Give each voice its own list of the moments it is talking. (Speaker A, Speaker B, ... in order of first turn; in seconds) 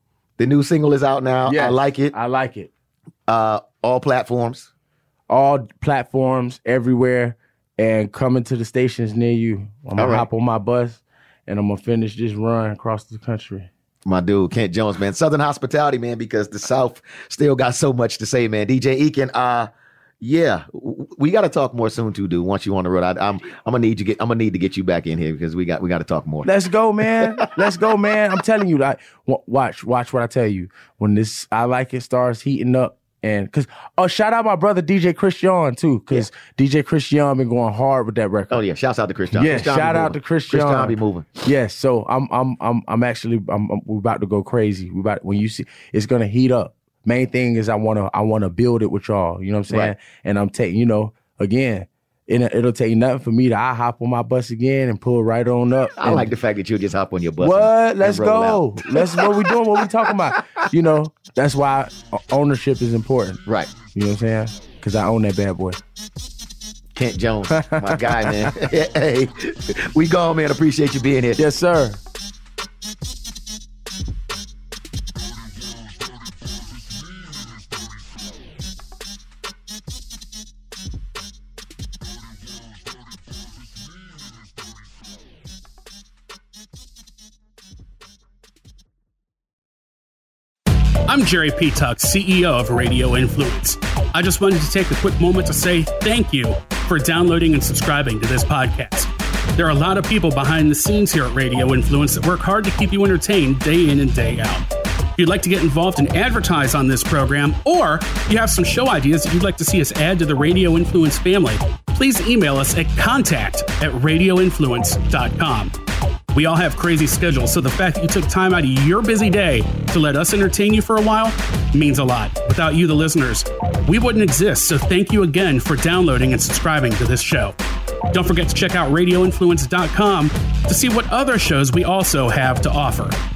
Speaker A: 0.4-2.1, 3.3-4.7, 10.0-10.3, 14.0-26.5, 27.2-27.5, 38.5-41.3, 56.0-60.1, 66.9-71.4
Speaker B: 1.5-2.7, 5.3-13.7, 26.4-38.6, 39.3-56.3, 57.4-65.8, 67.5-68.5, 71.4-72.0
Speaker C: 91.0-104.7, 105.2-115.7, 116.3-127.5, 128.1-133.2